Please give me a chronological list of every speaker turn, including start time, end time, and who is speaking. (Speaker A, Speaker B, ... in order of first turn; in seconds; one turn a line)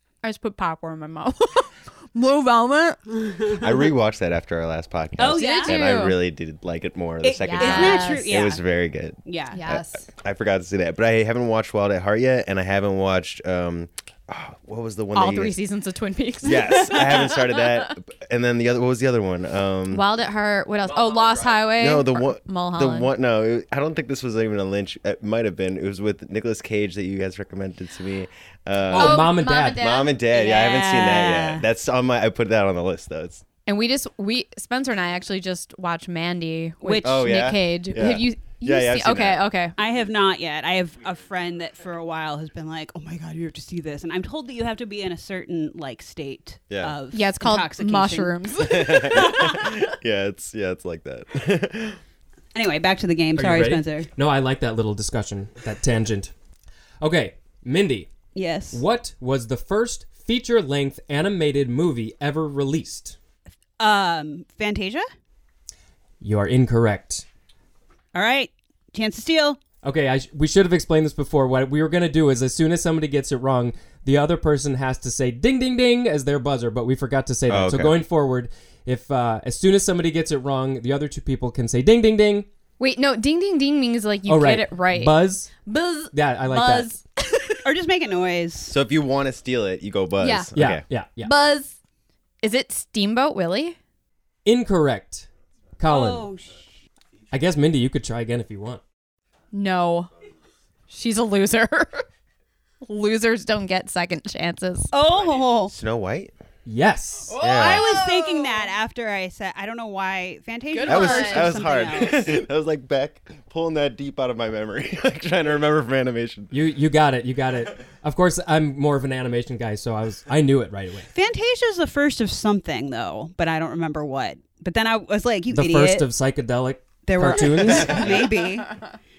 Speaker A: 0.2-3.0
Speaker B: 3.2-3.8
Speaker C: 3.5-15.6
Speaker B: 5.2-5.8
Speaker A: 5.3-6.2
Speaker B: 7.2-8.6
Speaker A: 7.4-8.3
Speaker B: 9.2-9.6
Speaker A: 9.5-10.1
Speaker A: 15.1-17.9
Speaker C: 16.4-20.0
Speaker A: 19.9-23.1
Speaker D: 21.2-21.5
Speaker C: 21.8-33.4
Speaker D: 28.9-29.9
Speaker A: 28.9-30.2
Speaker B: 30.3-31.6
Speaker A: 33.6-39.8
Speaker B: 36.8-37.2
Speaker C: 37.0-39.4
Speaker B: 39.8-48.4
Speaker C: 46.7-46.9
Speaker A: 47.1-49.8
Speaker C: 48.6-52.0
Speaker B: 52.5-54.1
Speaker D: 53.4-56.3
Speaker D: 57.0-58.1
Speaker B: 58.3-58.8
Speaker D: 58.7-63.2
Speaker B: 63.8-65.0
Speaker D: 66.2-67.2
Speaker B: 68.1-69.6
Speaker D: 69.8-82.5
Speaker C: 77.5-78.0
Speaker A: 82.8-87.6
Speaker D: 84.3-85.5
Speaker D: 86.1-86.9
Speaker B: 87.6-88.8
Speaker C: 88.7-90.8
Speaker A: 90.2-90.5
Speaker D: 90.5-91.3
Speaker A: 91.2-91.8
Speaker A: 92.4-93.8
Speaker D: 94.4-95.3
Speaker D: 95.8-96.3
Speaker B: 95.9-96.6
Speaker D: 97.3-98.8
Speaker A: 99.5-100.1
Speaker A: 100.9-102.0
Speaker A: 102.8-104.9
Speaker B: 104.9-105.7
Speaker C: 105.7-106.3
Speaker D: 106.7-107.4
Speaker A: 107.3-108.7
Speaker C: 107.4-107.8
Speaker B: 107.4-112.4
Speaker A: 110.7-111.6
Speaker C: 110.8-116.5
Speaker D: 116.5-121.1
Speaker B: 121.1-126.1
Speaker D: 125.5-128.2
Speaker B: 127.0-128.8